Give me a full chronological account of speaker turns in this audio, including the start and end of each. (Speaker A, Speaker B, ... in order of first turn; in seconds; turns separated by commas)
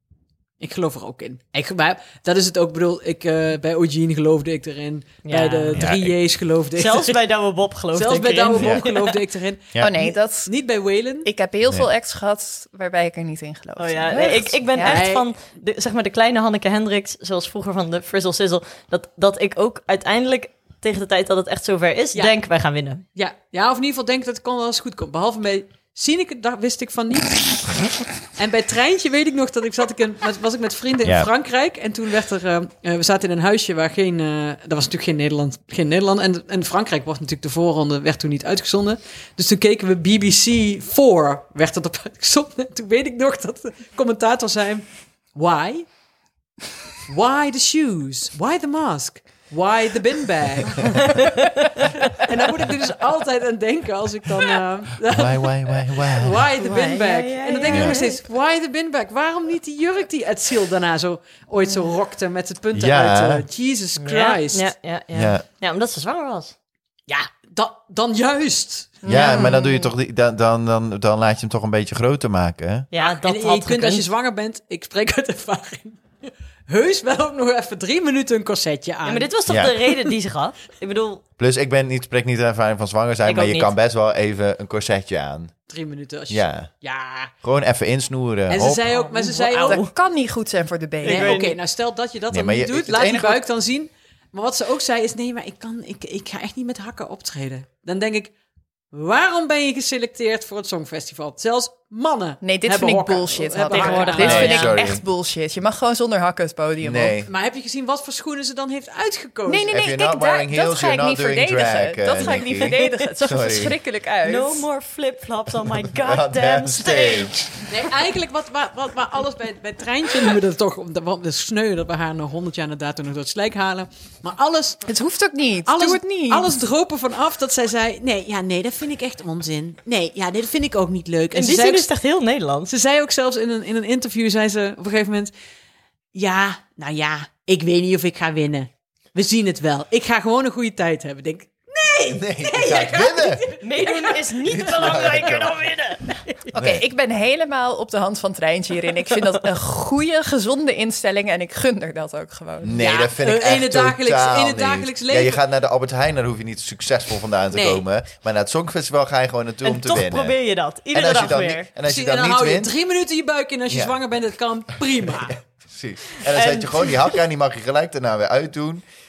Speaker A: 0.6-7.2, Speaker B: 5.2-5.8, Speaker C: 5.8-6.1, Speaker B: 6.8-8.9, Speaker A: 7.9-11.3, Speaker C: 8.6-8.9, Speaker C: 9.7-10.0, Speaker D: 9.8-10.5, Speaker D: 11.2-15.0, Speaker B: 13.8-23.0, Speaker A: 14.8-15.3, Speaker A: 23.1-27.8, Speaker A: 28.3-45.9, Speaker C: 31.0-31.3, Speaker A: 47.1-51.1, Speaker A: 52.1-64.7, Speaker C: 55.0-56.4, Speaker B: 56.6-58.2, Speaker C: 57.7-58.0, Speaker C: 62.7-63.4, Speaker B: 64.0-66.5, Speaker C: 65.1-65.4, Speaker A: 67.1-69.4, Speaker D: 69.0-69.9, Speaker C: 69.0-72.9, Speaker B: 72.9-74.1, Speaker A: 73.0-79.3, Speaker B: 79.0-81.2, Speaker C: 79.5-79.7, Speaker C: 81.4-85.5, Speaker B: 83.2-83.7, Speaker A: 85.7-87.3, Speaker C: 86.3-86.7, Speaker C: 87.4-88.9, Speaker A: 88.5-89.8, Speaker B: 88.9-89.9, Speaker D: 89.6-91.3, Speaker B: 91.0-91.6, Speaker A: 91.0-98.3, Speaker C: 92.3-93.4, Speaker A: 98.9-104.7, Speaker D: 102.4-107.2, Speaker B: 103.7-104.7, Speaker C: 104.2-105.0, Speaker C: 106.8-107.3, Speaker A: 107.3-109.7, Speaker D: 109.5-114.7, Speaker C: 109.7-113.8, Speaker B: 112.3-112.6, Speaker B: 114.2-117.3, Speaker C: 115.8-117.5, Speaker A: 117.7-124.8, Speaker D: 124.9-126.6, Speaker A: 125.7-131.9, Speaker B: 131.3-132.7, Speaker A: 132.7-135.3, Speaker A: 136.1-145.4, Speaker C: 142.1-143.5, Speaker B: 143.6-146.0, Speaker C: 144.5-145.6, Speaker A: 146.1-146.5, Speaker C: 146.5-146.8, Speaker D: 146.6-152.8, Speaker C: 152.6-160.4, Speaker A: 152.8-155.4, Speaker A: 157.5-157.8, Speaker B: 159.6-161.7, Speaker C: 160.9-162.7, Speaker A: 161.8-165.4, Speaker C: 163.7-163.9, Speaker C: 165.1-168.8, Speaker B: 166.3-166.9